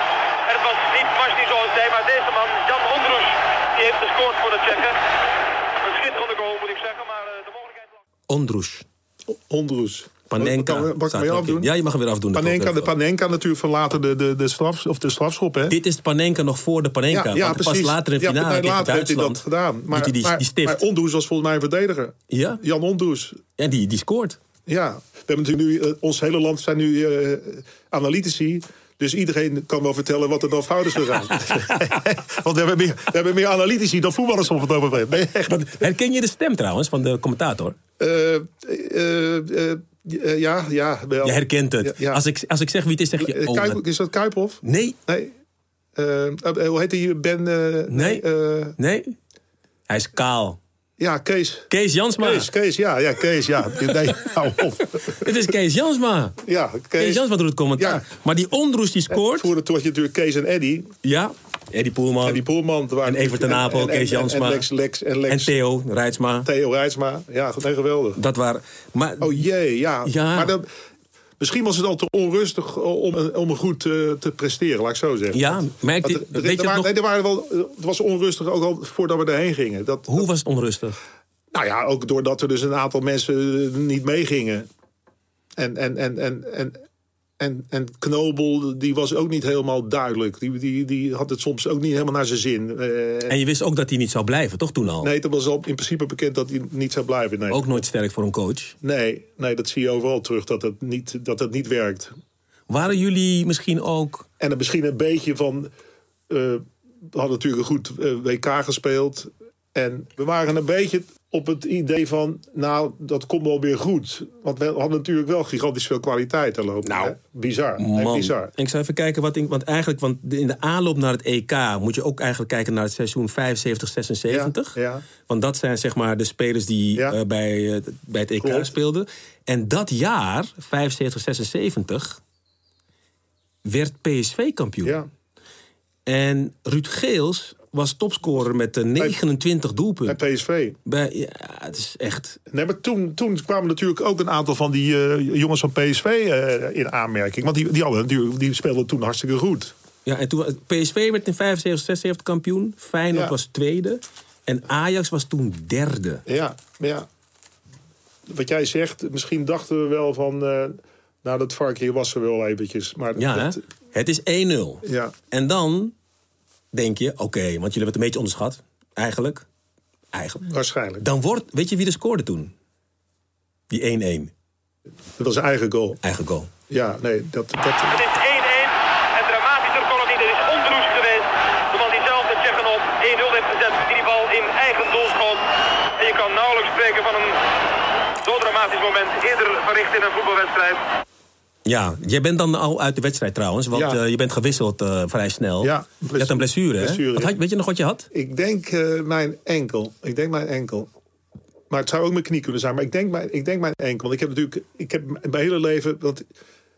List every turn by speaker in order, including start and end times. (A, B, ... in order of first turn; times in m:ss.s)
0:00.5-0:05.0 A
0:05.8-0:07.9 A
0:08.3-0:08.8 B
0:09.3-0:11.7 C
0:10.3-0:12.9 B
0:12.3-0:15.8 C
0:15.7-0:20.8 B
0:17.1-0:23.4 C
0:22.3-0:22.6 B
0:23.6-0:24.4 B
0:24.7-0:35.7 C
0:31.4-0:31.9 B
0:35.5-0:37.8 B
0:38.0-0:42.2 C
0:41.2-0:43.8 B
0:43.2-0:45.3 C
0:44.6-0:45.0 B
0:46.0-0:48.8 C
0:47.9-0:48.2 B
0:48.8-0:49.2 B
0:49.9-0:50.6 B
0:51.0-0:55.3 C
0:51.7-0:52.5 B
0:55.1-0:56.4 B
0:56.4-0:58.0 C
0:57.0-0:59.5 B
0:59.1-1:00.9 C
1:01.0-1:02.4 B
1:02.2-1:05.6 C
1:03.0-1:04.6 B
1:05.3-1:06.5 B
1:06.4-1:08.2 C
1:08.2-1:09.5 B
1:09.2-1:10.7 C
1:10.0-1:10.5 B
1:11.4-1:20.3 C
1:15.3-1:16.9 B
1:20.1-1:21.0 B
1:21.5-1:24.7 C
1:25.6-1:26.8 C
1:27.4-1:33.4 C
1:33.3-1:35.1 B
1:35.0-1:37.8 C
1:37.5-1:38.8 B
1:38.8-1:42.1 C
1:42.7-1:44.3 B
1:44.4-1:45.7 C
1:46.3-1:58.5 C
1:56.8-1:57.2 B
1:57.8-2:04.8 B
2:04.3-2:05.0 C
2:05.3-2:12.2 B
2:08.4-2:08.7 C
2:13.6-2:15.0 B
2:16.1-2:20.2 B
2:20.1-2:20.8 C
2:20.8-2:22.4 B
2:22.5-2:29.7 C
2:30.1-2:36.2 B
2:36.3-2:37.1 C
2:38.3-2:43.6 C
2:43.2-2:45.9 B
2:44.8-2:45.1 C
2:46.7-2:49.5 B
2:50.1-2:50.5 B
2:50.5-2:51.0 C
2:51.0-2:52.5 B
2:53.7-2:54.3 B
2:55.2-2:56.0 C
2:56.0-2:56.5 B
2:56.7-2:58.0 C
2:57.9-3:05.5 A
3:06.0-3:07.4 A
3:08.2-3:10.8 A
3:11.7-3:18.1 B
3:13.7-3:14.0 C
3:15.6-3:17.4 C
3:18.1-3:20.9 C
3:21.7-3:26.3 C